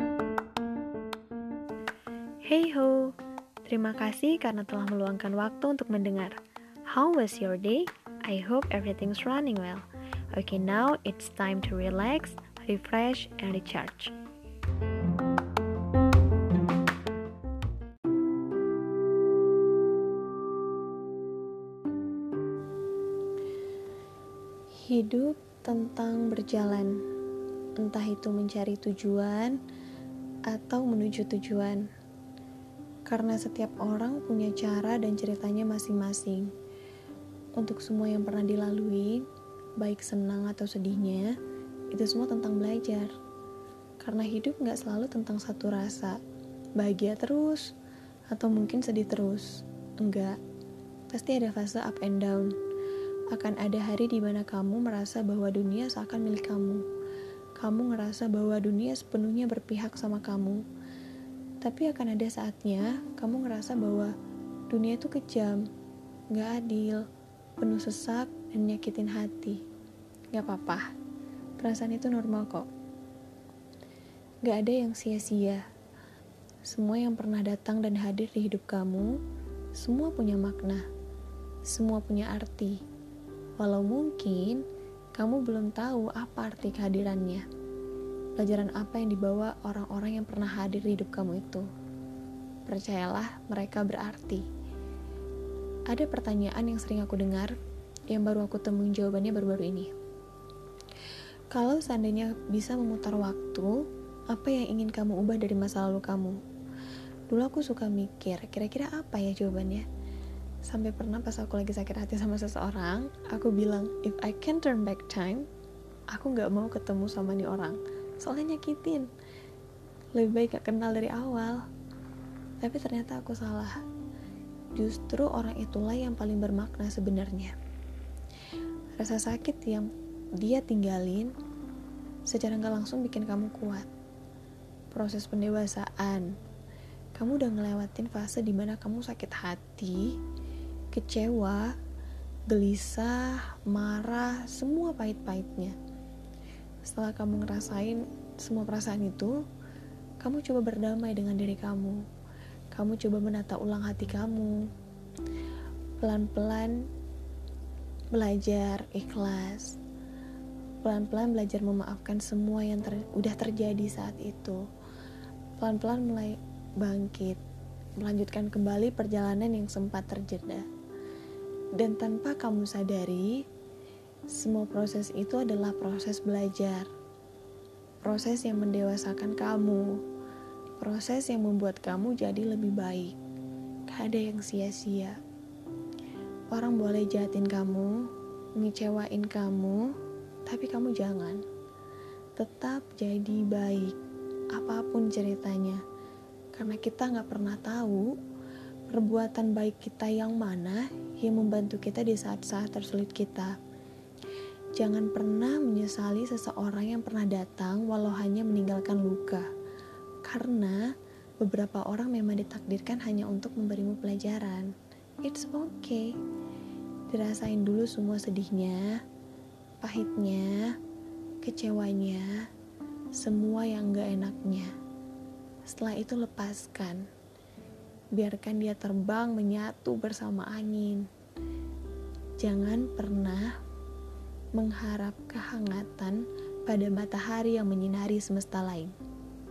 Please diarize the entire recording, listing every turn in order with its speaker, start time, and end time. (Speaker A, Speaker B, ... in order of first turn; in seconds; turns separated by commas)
Speaker A: 2.4-14.1, Speaker A: 24.8-27.0, Speaker A: 27.8-29.6, Speaker A: 30.5-31.9, Speaker A: 33.0-36.5, Speaker A: 37.6-39.3, Speaker A: 39.8-41.3, Speaker A: 41.9-43.1, Speaker A: 44.0-46.2, Speaker A: 46.8-47.7, Speaker A: 48.3-50.4, Speaker A: 51.1-52.5, Speaker A: 53.3-56.8, Speaker A: 57.6-60.6, Speaker A: 61.6-64.1, Speaker A: 64.7-65.6, Speaker A: 66.3-67.1, Speaker A: 67.6-69.6, Speaker A: 70.3-70.8, Speaker A: 71.6-72.7, Speaker A: 74.4-75.6, Speaker A: 76.7-79.1, Speaker A: 79.8-80.8, Speaker A: 81.7-82.8, Speaker A: 83.6-84.6, Speaker A: 85.1-87.4, Speaker A: 88.4-91.7, Speaker A: 92.7-94.4, Speaker A: 95.9-97.5, Speaker A: 98.1-99.9, Speaker A: 101.5-106.4, Speaker A: 107.3-109.8, Speaker A: 110.6-115.5, Speaker A: 116.1-119.1, Speaker A: 120.1-121.6, Speaker A: 122.6-123.8, Speaker A: 124.7-127.5, Speaker A: 128.9-131.3, Speaker A: 132.2-133.9, Speaker A: 134.9-136.3, Speaker A: 137.1-140.2, Speaker A: 140.9-141.7, Speaker A: 142.5-145.8, Speaker A: 146.8-149.4, Speaker A: 150.2-152.0, Speaker A: 152.7-154.7, Speaker A: 156.0-156.8, Speaker A: 158.1-159.8, Speaker A: 160.8-164.6, Speaker A: 165.6-167.4, Speaker A: 168.0-170.7, Speaker A: 171.8-173.4, Speaker A: 174.3-176.9, Speaker A: 178.0-180.0, Speaker A: 180.8-183.2, Speaker A: 183.9-185.2, Speaker A: 186.5-189.9, Speaker A: 190.4-191.4, Speaker A: 192.3-193.9, Speaker A: 194.5-195.8, Speaker A: 196.5-198.1, Speaker A: 198.9-203.6, Speaker A: 204.8-209.5, Speaker A: 210.2-214.7, Speaker A: 215.2-216.1, Speaker A: 217.1-219.0, Speaker A: 219.8-220.8, Speaker A: 221.4-222.4, Speaker A: 223.1-224.7, Speaker A: 225.6-227.1, Speaker A: 228.1-231.1, Speaker A: 232.4-233.5, Speaker A: 234.6-238.9